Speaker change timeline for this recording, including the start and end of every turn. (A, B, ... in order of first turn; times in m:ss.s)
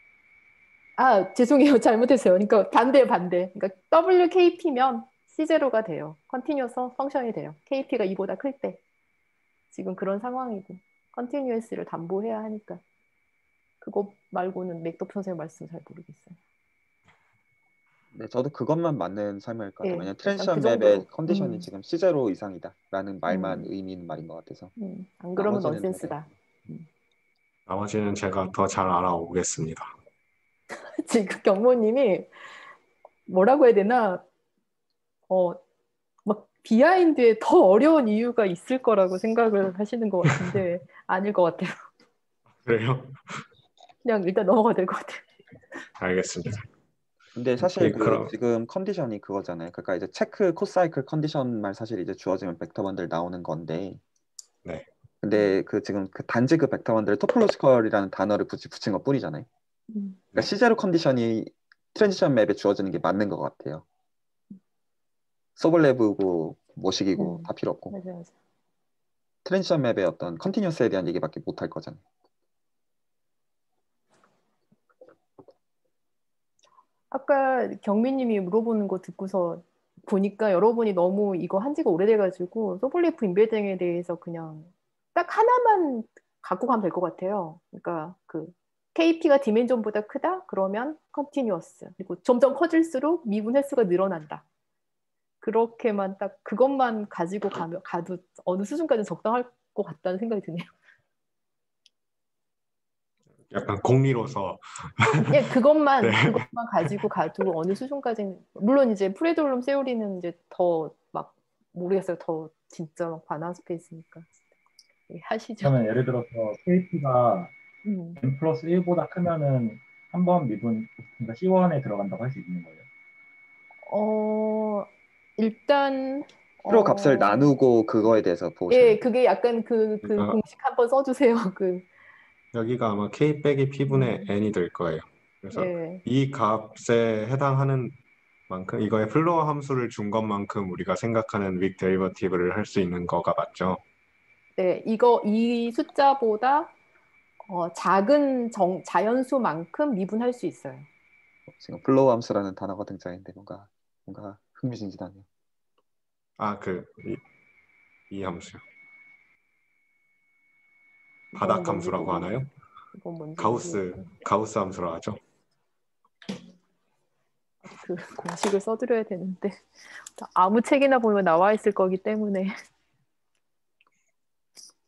0:01.0-0:08.8 A
0:09.7-0:12.8 A
0:13.8-0:16.4 A
0:18.1-0:24.7 B
0:19.8-0:21.7 A
0:23.2-0:23.7 A
0:24.8-0:26.9 A
0:25.4-0:26.2 B
0:27.7-0:29.9 C
0:31.0-0:32.3 A
0:33.3-0:34.2 A
0:35.3-0:35.6 A
0:36.2-0:41.8 A
0:42.6-0:43.4 C
0:44.0-0:45.2 A
0:46.0-0:46.7 C
0:47.3-0:54.0 B
0:47.6-0:48.3 C
0:55.2-0:59.5 B
0:55.3-0:55.6 A
0:59.9-1:00.4 A
1:00.3-1:03.9 B
1:05.6-1:07.9 B
1:07.2-1:08.3 A
1:09.4-1:12.0 B
1:17.1-1:34.4 A
1:35.4-1:40.7 A
1:43.5-1:45.5 C
1:45.2-1:54.3 A
1:46.0-1:46.9 C
1:55.1-1:55.7 A
1:55.6-1:57.5 D
1:57.8-1:58.2 A
1:58.2-2:02.8 D
2:03.9-2:07.5 A
2:06.7-2:09.0 B
2:08.7-2:11.9 A
2:10.1-2:10.4 C
2:12.5-2:18.0 C
2:13.9-2:14.3 A
2:15.5-2:16.0 A
2:18.5-2:23.8 C
2:24.6-2:26.7 A
2:27.5-2:30.9 A
2:31.5-2:35.2 B
2:36.4-2:37.2 C
2:38.1-2:38.6 C
2:41.3-2:44.1 A
2:41.4-2:42.5 C
2:43.4-2:45.2 C
2:47.6-2:52.5 A